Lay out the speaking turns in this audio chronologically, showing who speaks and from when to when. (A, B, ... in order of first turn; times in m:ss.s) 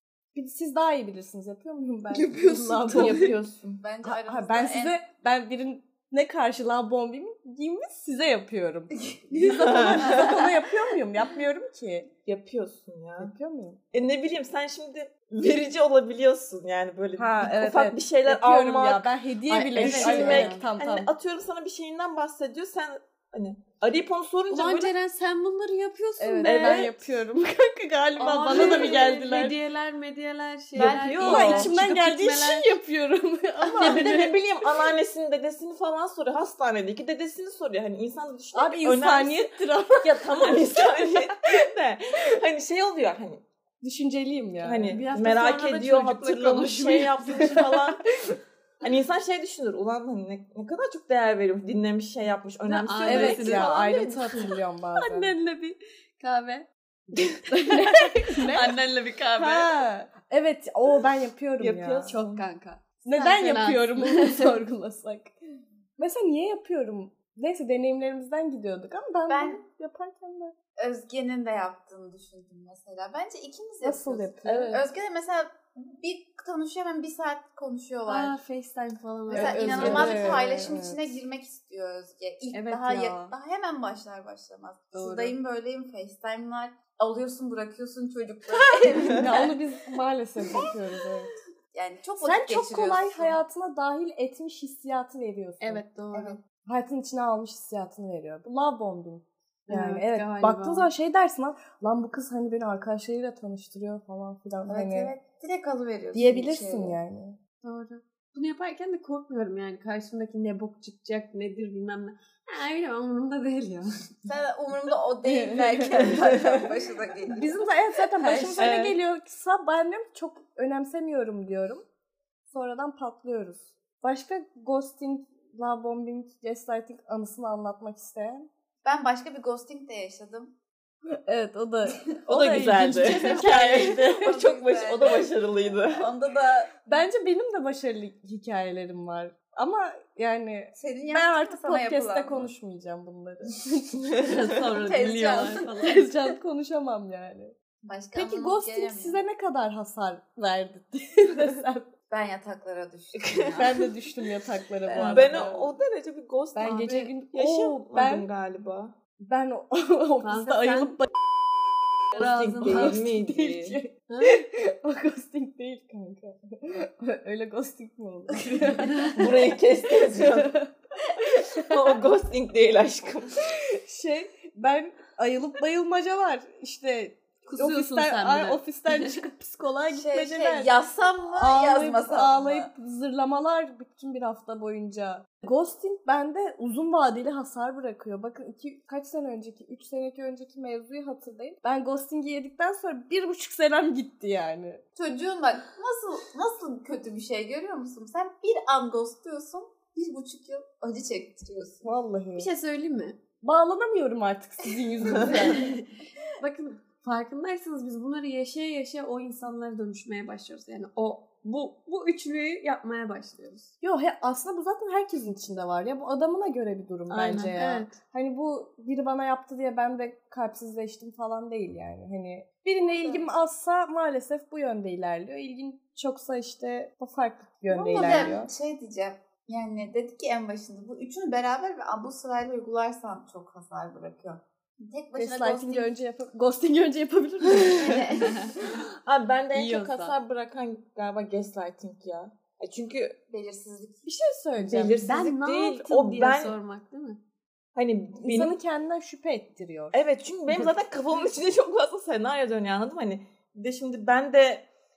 0:00.4-0:03.4 A
0:02.1-0:03.6 B
0:02.9-0:03.6 C
0:03.8-0:05.0 D
0:04.0-0:12.1 A
0:09.3-0:10.2 B
0:09.5-0:10.3 C
0:12.2-0:13.3 C
0:13.2-0:13.8 A
0:13.9-0:24.9 C
0:17.2-0:21.1 A
0:19.8-0:20.6 D
0:19.8-0:20.5 B
0:24.5-0:27.0 B
0:26.2-0:29.6 A
0:26.4-0:27.0 C
0:28.2-0:32.8 B
0:28.5-0:28.8 C
0:30.8-0:31.7 C
0:30.8-0:31.6 D
0:31.2-0:34.2 A
0:33.6-0:34.4 B
0:33.8-0:43.4 C
0:38.5-0:41.3 A
0:43.8-0:45.0 A
0:44.6-0:48.0 C
0:44.9-0:47.9 B
0:48.8-0:53.8 C
0:52.7-0:59.7 B
0:53.1-0:55.4 A
0:57.5-0:58.8 A
0:59.4-1:02.2 A
1:01.6-1:02.4 C
1:02.1-1:04.6 B
1:03.0-1:05.3 A
1:06.0-1:10.5 A
1:09.3-1:09.6 D
1:10.8-1:18.4 D
1:13.8-1:14.8 A
1:14.5-1:14.8 C
1:18.1-1:20.4 B
1:19.3-1:29.5 D
1:19.3-1:21.2 A
1:19.8-1:20.2 C
1:22.5-1:23.4 B
1:24.9-1:25.4 B
1:29.1-1:31.3 A
1:31.7-1:33.4 D
1:32.2-1:35.8 A
1:35.6-1:36.4 B
1:36.1-1:36.4 D
1:36.7-1:45.1 A
1:39.7-1:40.9 B
1:44.7-1:47.0 D
1:46.1-1:47.4 A
1:47.6-1:53.9 B
1:54.3-1:57.7 D
1:55.2-1:56.5 A
1:57.3-2:01.8 A
1:58.6-1:59.0 C
2:02.5-2:08.5 A
2:08.8-2:10.5 D
2:11.2-2:14.1 A
2:12.3-2:16.1 C
2:13.7-2:16.7 D
2:16.9-2:24.0 A
2:20.8-2:22.5 D
2:24.2-2:26.4 B
2:24.8-2:25.7 D
2:25.8-2:27.6 A
2:27.8-2:29.2 D
2:28.2-2:31.9 A
2:32.1-2:33.9 D
2:33.2-2:33.7 C
2:33.6-2:35.6 A
2:34.9-2:35.6 D
2:35.0-2:39.0 C
2:36.6-2:38.3 A
2:36.6-2:37.1 B
2:39.2-2:41.2 A
2:40.2-2:41.0 B
2:42.1-2:43.0 B
2:42.1-2:43.8 C
2:42.6-2:49.2 A
2:44.1-2:44.4 B
2:49.1-2:50.6 C
2:50.1-2:50.7 A
2:51.2-2:51.7 A
2:51.5-2:53.5 C
2:53.8-3:00.7 A
2:57.4-2:59.2 B
2:59.9-3:02.7 D
3:01.3-3:14.8 A
3:15.0-3:21.9 D
3:21.8-3:22.5 A
3:22.4-3:23.2 B
3:23.4-3:25.7 A
3:25.3-3:25.8 B
3:26.4-3:33.7 B
3:33.8-3:48.5 A
3:37.1-3:37.5 C
3:37.4-3:38.0 B
3:47.7-3:55.9 D
3:48.0-3:48.4 B
3:55.2-3:58.4 A
3:57.7-3:58.6 D
3:59.0-4:03.2 C
3:59.5-4:00.2 B
4:03.3-4:04.1 D
4:04.0-4:05.0 A
4:04.6-4:06.6 C
4:05.0-4:07.2 B
4:07.8-4:08.6 C
4:08.2-4:10.0 A
4:09.9-4:14.6 C